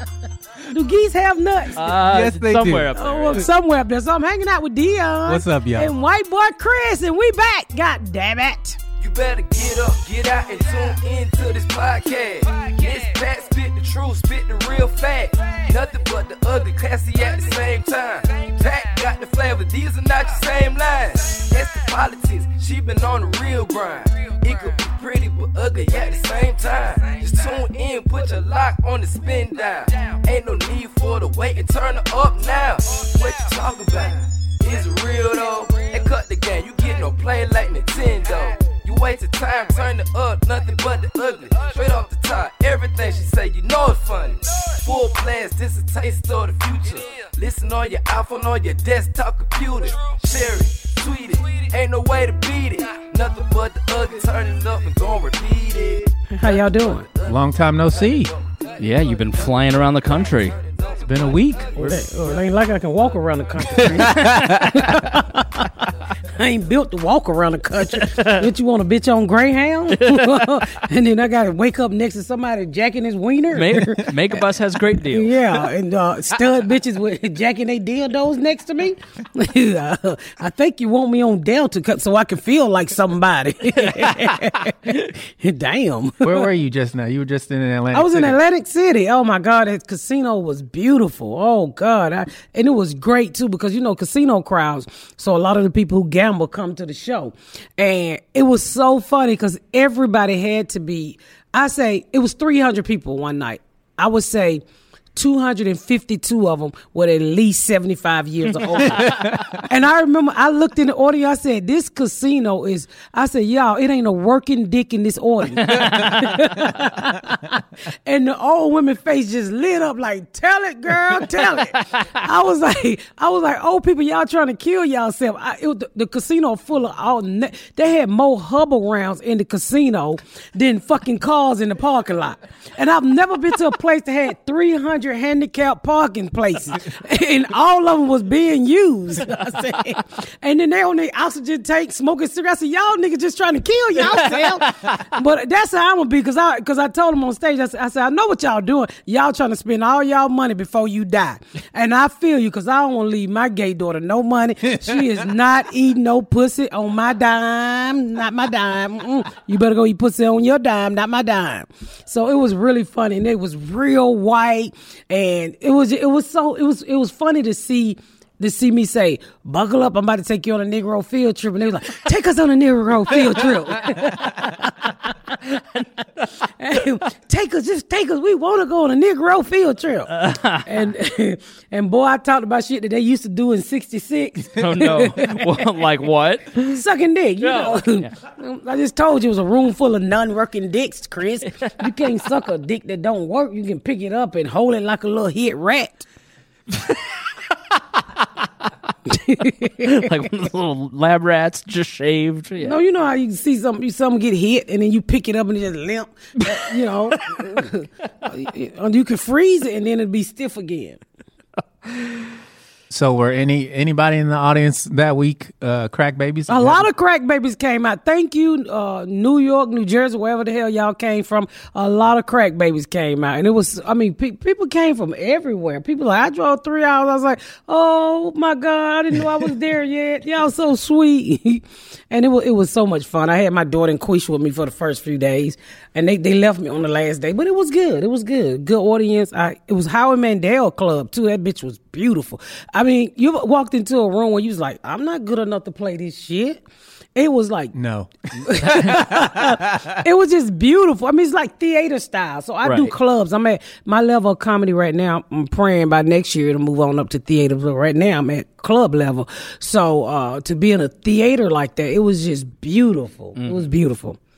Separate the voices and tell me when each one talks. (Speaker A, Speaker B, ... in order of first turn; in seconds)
Speaker A: 0.7-2.0, 3.0-8.8, 56.3-57.1, 61.8-74.4, 75.0-86.5, 87.9-104.6, 105.2-175.3, 176.6-185.7, 186.7-196.1, 199.1-200.1, 202.6-211.0, 216.5-246.6, 247.2-247.7, 248.4-264.2
Speaker B: 1.8-3.5, 58.8-60.6, 67.9-68.5, 70.0-70.5, 73.5-75.4, 83.8-84.2, 108.9-109.2, 115.6-116.2, 121.7-122.0, 175.6-175.8, 180.1-180.8, 184.6-186.8, 187.4-188.1, 199.8-202.8, 248.6-249.1, 252.6-252.9, 263.4-263.6
Speaker C: 2.0-2.9, 5.3-5.9, 57.3-58.3, 61.1-62.0, 63.8-64.9, 86.2-88.4, 108.9-109.6, 154.7-155.0, 212.9-216.9, 247.7-250.0
Speaker D: 9.0-62.3, 63.6-64.5